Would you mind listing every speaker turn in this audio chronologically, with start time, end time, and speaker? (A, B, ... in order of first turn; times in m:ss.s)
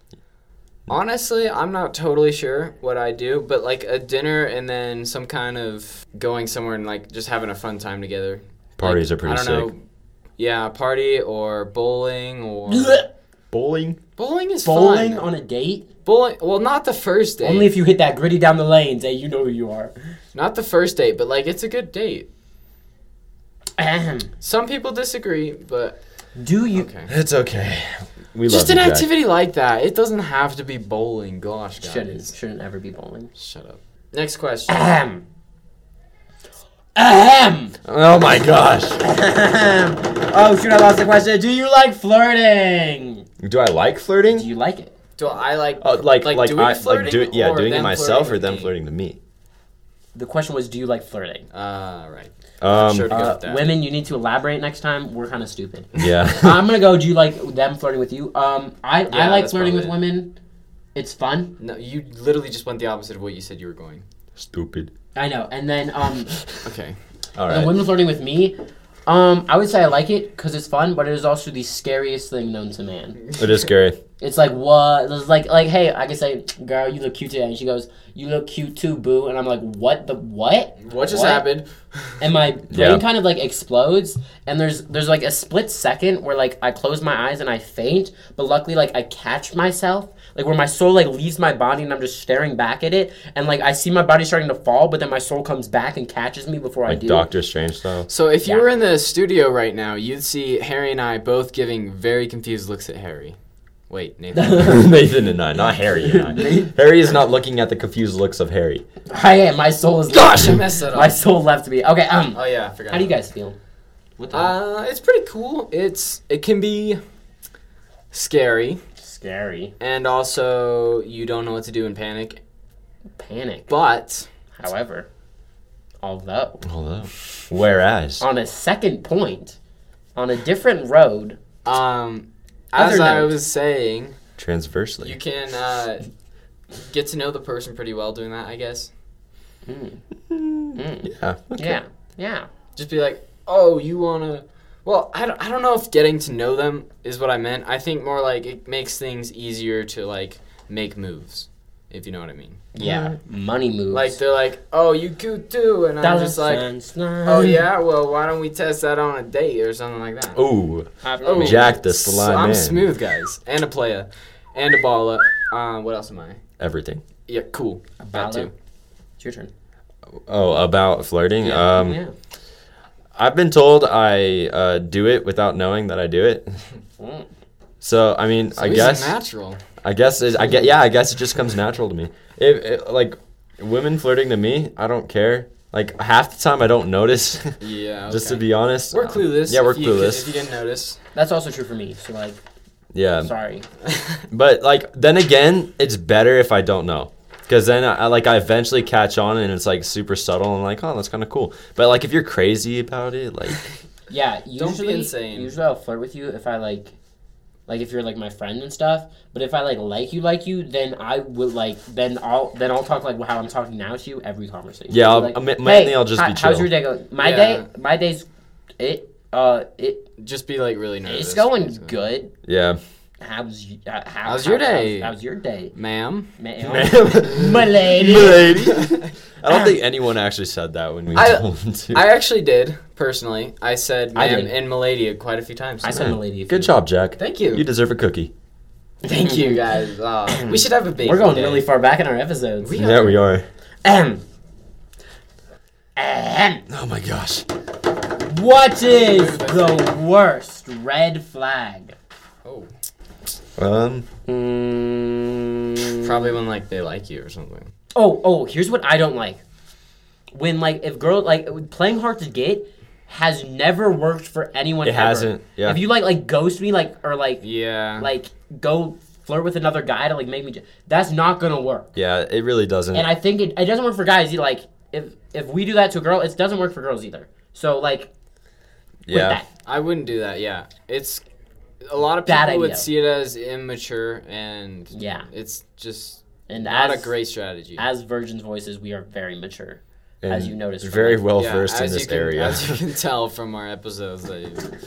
0:00.9-0:09.8 A
0:08.8-0:09.7 B
0:10.4-0:13.0 A
0:12.7-0:13.1 C
0:13.5-0:14.0 B
0:14.2-0:15.2 A
0:14.6-0:15.9 C
0:16.0-0:17.7 A
0:17.4-0:19.9 C
0:20.3-0:22.3 A
0:23.8-0:24.3 C
0:24.4-0:26.0 A
0:26.4-0:26.9 C
0:26.7-0:27.1 A
0:27.1-0:29.1 B
0:28.5-0:32.3 A
0:31.8-0:33.3 C
0:33.4-0:34.8 A
0:34.7-0:35.2 C
0:37.0-0:37.8 C
0:37.8-0:39.0 B
0:39.0-0:43.3 C
0:43.4-0:44.5 B
0:44.3-0:44.9 C
0:45.2-0:48.7 A
0:45.8-0:49.2 B
0:50.2-0:51.5 C
0:51.5-0:53.7 A
0:52.6-0:53.1 B
0:53.1-1:00.4 C
0:56.0-0:56.6 B
0:59.1-1:00.0 A
1:01.0-1:01.6 C
1:01.6-1:04.0 A
1:04.4-1:04.9 B
1:05.2-1:06.3 C
1:06.3-1:06.7 B
1:06.6-1:07.0 A
1:07.4-1:07.8 B
1:07.5-1:08.6 C
1:09.1-1:13.2 C
1:13.2-1:13.5 A
1:13.4-1:14.0 B
1:14.2-1:21.5 C
1:20.8-1:22.1 A
1:22.2-1:37.3 C
1:22.7-1:23.0 B
1:36.9-1:38.1 B
1:38.1-1:43.4 A
1:43.9-1:44.7 A
1:44.3-1:45.0 C
1:44.6-1:48.8 B
1:46.0-1:46.7 C
1:49.1-1:53.6 C
1:50.2-1:51.2 A
1:52.3-1:53.2 A
1:54.2-1:54.5 C
1:54.3-1:57.0 A
1:58.1-1:58.8 A
1:59.0-1:59.7 C
1:59.8-2:02.4 A
2:03.2-2:03.7 C
2:03.7-2:04.3 A
2:04.6-2:05.1 C
2:06.0-2:06.7 C
2:06.6-2:08.2 B
2:08.2-2:09.6 C
2:10.2-2:11.4 C
2:11.6-2:14.2 A
2:12.8-2:13.4 C
2:14.4-2:15.2 B
2:15.0-2:16.1 A
2:16.8-2:18.9 A
2:19.7-2:20.0 C
2:20.3-2:21.8 B
2:20.7-2:22.5 C
2:22.8-2:32.7 A
2:32.8-2:34.2 C
2:32.8-2:33.1 B
2:33.9-2:36.7 A
2:36.0-2:37.6 C
2:37.2-2:40.4 A
2:40.3-2:42.9 B
2:41.0-2:41.8 C
2:41.2-2:46.4 A
2:46.6-2:47.0 B
2:47.3-2:48.5 A
2:48.0-2:48.5 C
2:49.2-2:49.5 C
2:50.3-2:52.0 B
2:51.4-2:52.1 C
2:53.2-2:56.6 B
2:57.0-2:57.3 C
2:57.8-2:59.2 B
2:58.5-2:59.6 A
2:59.8-3:07.6 B
3:07.6-3:11.0 A
3:08.1-3:10.4 B
3:11.2-3:12.4 C
3:12.9-3:13.3 B
3:13.2-3:13.7 C
3:13.9-3:14.2 A
3:14.3-3:23.6 B
3:24.1-3:27.0 C
3:24.6-3:25.5 A
3:27.7-3:38.3 C
3:34.9-3:36.7 B
3:37.2-3:37.7 A
3:38.8-3:40.1 C
3:40.2-3:41.9 A
3:41.1-3:42.4 C
3:42.4-3:42.8 B
3:43.2-3:45.8 C
3:44.3-3:45.2 A
3:45.7-3:46.3 A
3:46.4-3:48.8 C
3:46.6-3:52.1 B
3:51.1-3:56.1 A
3:54.2-3:54.5 C
3:55.8-3:56.8 C
3:55.9-3:58.3 B
3:57.2-3:57.6 A
3:59.0-3:59.6 C
3:59.1-4:01.6 A
4:00.3-4:02.8 C
4:02.6-4:03.2 A
4:02.8-4:03.5 B
4:03.8-4:04.2 C
4:06.0-4:06.6 C
4:06.7-4:07.5 B
4:08.2-4:12.0 C
4:08.8-4:09.9 A
4:12.4-4:12.7 A
4:13.6-4:14.1 B
4:14.3-4:16.3 C
4:16.0-4:17.7 A
4:18.0-4:19.4 C
4:20.3-4:31.9 C
4:24.8-4:25.8 B
4:27.4-4:28.1 A
4:32.0-4:33.1 B
4:32.9-4:38.1 C
4:39.1-4:39.4 B
4:39.1-4:39.5 C
4:39.6-4:41.2 A
4:41.8-4:47.8 A
4:42.2-4:42.9 C
4:44.9-4:45.3 C
4:46.5-4:47.2 C
4:47.8-4:51.3 C
4:50.2-4:52.8 B
4:51.4-4:54.8 A